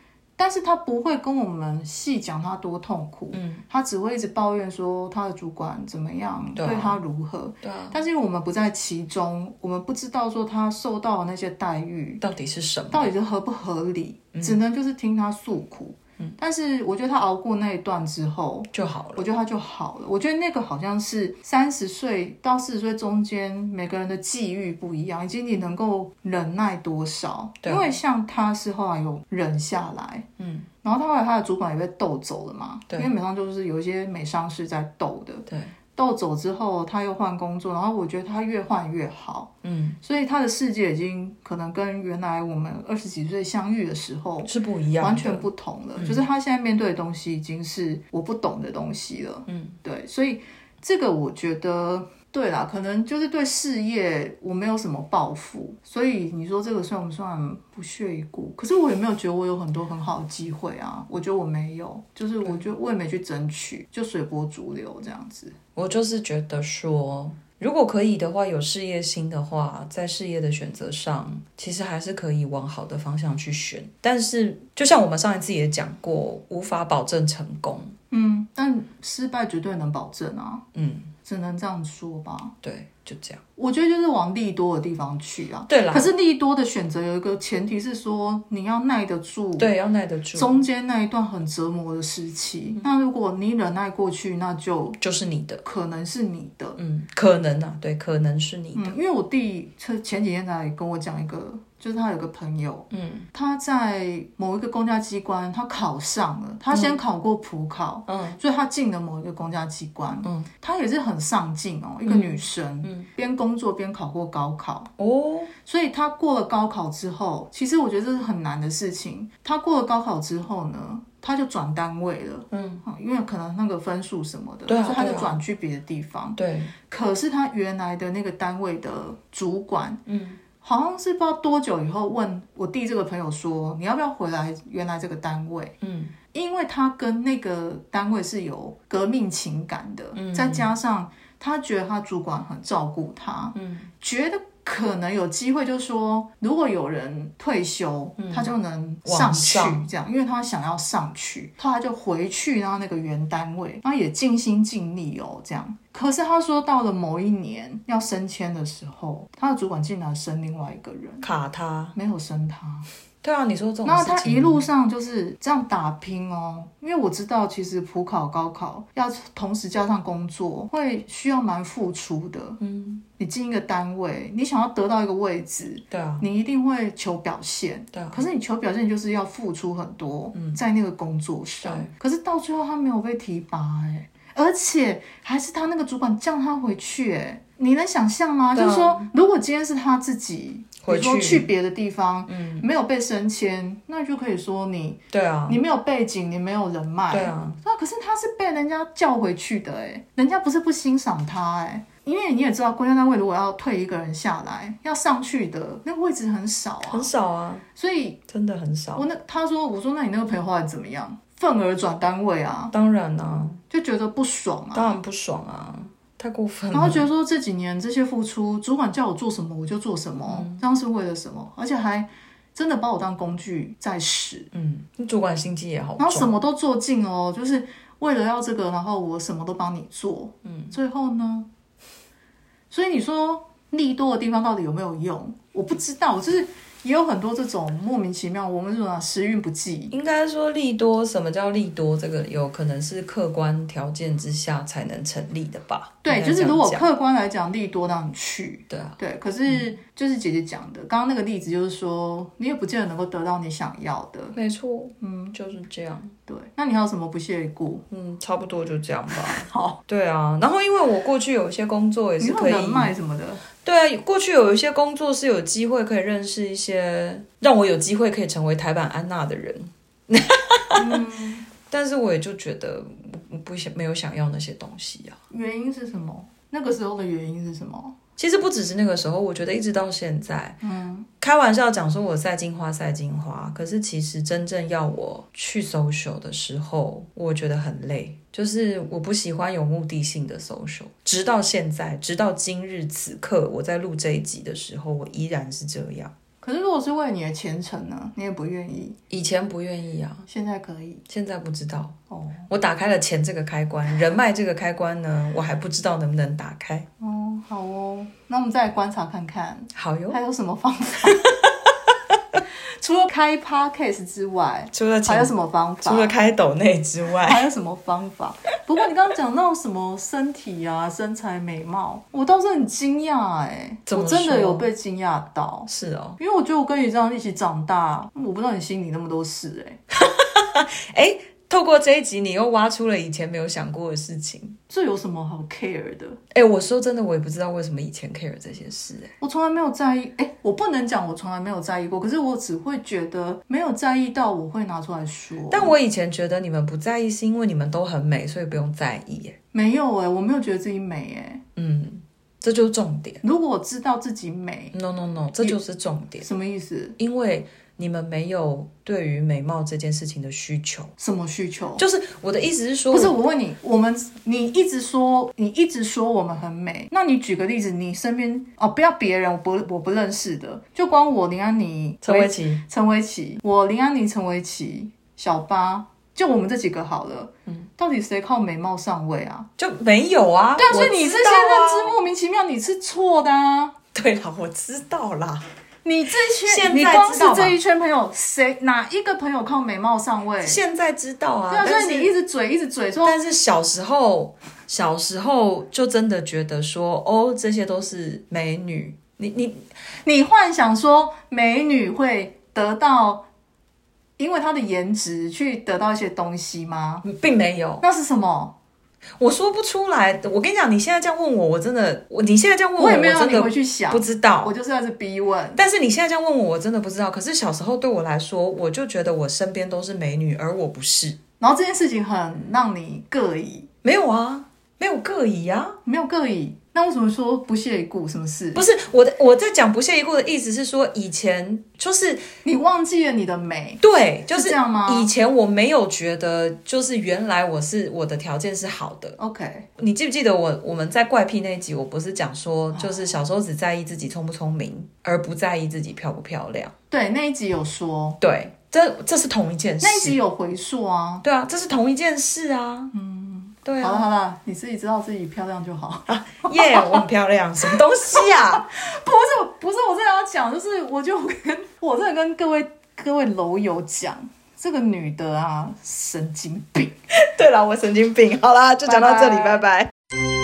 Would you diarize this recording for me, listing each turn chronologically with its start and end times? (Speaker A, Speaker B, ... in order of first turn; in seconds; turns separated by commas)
Speaker A: 0.4-12.2, Speaker B: 3.3-3.6, Speaker B: 6.5-7.0, Speaker B: 7.6-8.0, Speaker B: 12.2-13.1, Speaker A: 12.9-30.3, Speaker B: 18.7-19.2, Speaker B: 27.6-27.9, Speaker B: 30.4-30.7, Speaker A: 30.8-39.5, Speaker B: 35.5-35.7, Speaker B: 39.6-40.0, Speaker A: 40.0-65.5, Speaker B: 44.4-46.2, Speaker B: 49.5-49.8, Speaker B: 65.8-78.0, Speaker A: 78.1-80.6, Speaker B: 80.7-81.1, Speaker A: 81.2-82.5, Speaker B: 82.6-83.4, Speaker A: 83.6-89.7, Speaker B: 85.7-86.1, Speaker B: 89.6-90.5, Speaker A: 90.3-95.0, Speaker B: 95.0-95.6, Speaker A: 95.6-96.8, Speaker B: 96.8-98.9, Speaker A: 98.7-114.9, Speaker B: 102.9-103.3, Speaker B: 106.7-107.0, Speaker B: 108.1-108.4, Speaker B: 110.2-110.5, Speaker B: 112.0-113.1, Speaker B: 115.0-115.5, Speaker A: 115.6-130.0, Speaker B: 122.5-122.8, Speaker B: 124.7-125.4, Speaker B: 126.3-126.7, Speaker B: 130.1-130.4, Speaker A: 130.6-135.7, Speaker B: 135.8-136.1, Speaker A: 136.3-161.2, Speaker B: 140.1-140.7, Speaker B: 143.5-143.9, Speaker B: 148.2-148.5, Speaker B: 149.0-149.9, Speaker B: 161.2-161.9, Speaker A: 161.9-162.9, Speaker B: 163.2-164.6, Speaker A: 163.8-172.6, Speaker B: 172.6-173.0, Speaker A: 173.2-207.1, Speaker B: 175.9-176.2, Speaker B: 177.9-178.2, Speaker B: 180.3-180.6, Speaker B: 181.6-181.9, Speaker B: 188.5-189.1, Speaker B: 190.8-191.5, Speaker B: 192.3-192.7, Speaker B: 195.1-195.6, Speaker B: 197.1-197.6, Speaker B: 206.8-207.6, Speaker A: 207.8-208.2, Speaker B: 208.3-209.1, Speaker A: 208.9-212.7, Speaker B: 212.7-213.6, Speaker A: 213.7-215.0, Speaker B: 214.7-217.1, Speaker A: 216.7-224.5, Speaker B: 220.3-220.6, Speaker B: 224.5-226.3, Speaker A: 226.0-231.5, Speaker B: 230.4-230.7, Speaker A: 232.7-239.9, Speaker B: 239.9-246.8, Speaker A: 246.0-254.3, Speaker B: 248.7-249.7, Speaker B: 254.3-256.1, Speaker A: 255.0-255.3, Speaker A: 256.3-257.8, Speaker B: 257.9-262.9, Speaker A: 259.1-259.8, Speaker A: 262.2-263.4, Speaker B: 263.6-270.9, Speaker A: 270.7-271.4, Speaker B: 271.7-275.2, Speaker A: 275.3-277.9, Speaker B: 278.2-280.6, Speaker A: 280.6-281.1, Speaker B: 281.2-296.1, Speaker A: 296.4-299.0, Speaker B: 299.1-300.3, Speaker A: 300.3-301.0, Speaker B: 301.1-301.9, Speaker A: 302.1-302.5, Speaker B: 302.5-306.9, Speaker A: 307.0-311.3, Speaker B: 309.7-310.2, Speaker B: 311.1-311.6, Speaker A: 312.8-316.1, Speaker B: 314.7-315.3, Speaker B: 315.8-317.4, Speaker A: 317.1-329.8, Speaker B: 323.9-324.7, Speaker B: 325.7-326.2, Speaker B: 329.9-334.6, Speaker A: 334.7-336.2, Speaker B: 336.3-339.1, Speaker A: 339.2-345.8, Speaker B: 345.5-349.4, Speaker A: 349.5-351.4, Speaker B: 351.6-353.2, Speaker A: 353.2-354.7, Speaker B: 354.7-356.3, Speaker A: 356.2-356.9, Speaker B: 357.0-360.9, Speaker A: 361.0-361.8, Speaker B: 361.8-363.1, Speaker A: 362.9-379.5, Speaker B: 372.0-372.6, Speaker B: 379.6-381.9, Speaker A: 380.6-383.8, Speaker B: 383.9-385.4, Speaker A: 385.8-390.6, Speaker B: 386.4-387.6, Speaker B: 390.4-392.1, Speaker A: 391.5-393.2, Speaker B: 393.0-399.6, Speaker A: 400.0-403.3, Speaker A: 404.2-407.0, Speaker B: 407.0-407.8, Speaker A: 407.8-408.6, Speaker B: 409.2-414.5, Speaker A: 412.8-415.6, Speaker B: 415.5-421.2, Speaker A: 421.4-423.7, Speaker B: 423.8-425.8, Speaker A: 425.9-428.6, Speaker B: 428.5-432.2, Speaker A: 432.4-435.1, Speaker B: 433.8-439.2, Speaker A: 439.2-439.7, Speaker B: 439.8-446.7, Speaker A: 442.7-443.1, Speaker A: 446.9-448.2, Speaker B: 448.2-450.2, Speaker A: 449.8-451.2, Speaker B: 451.2-452.9, Speaker A: 452.9-457.0, Speaker B: 453.6-454.0, Speaker B: 456.1-458.7, Speaker A: 457.7-466.9, Speaker B: 467.1-469.9, Speaker A: 468.8-469.6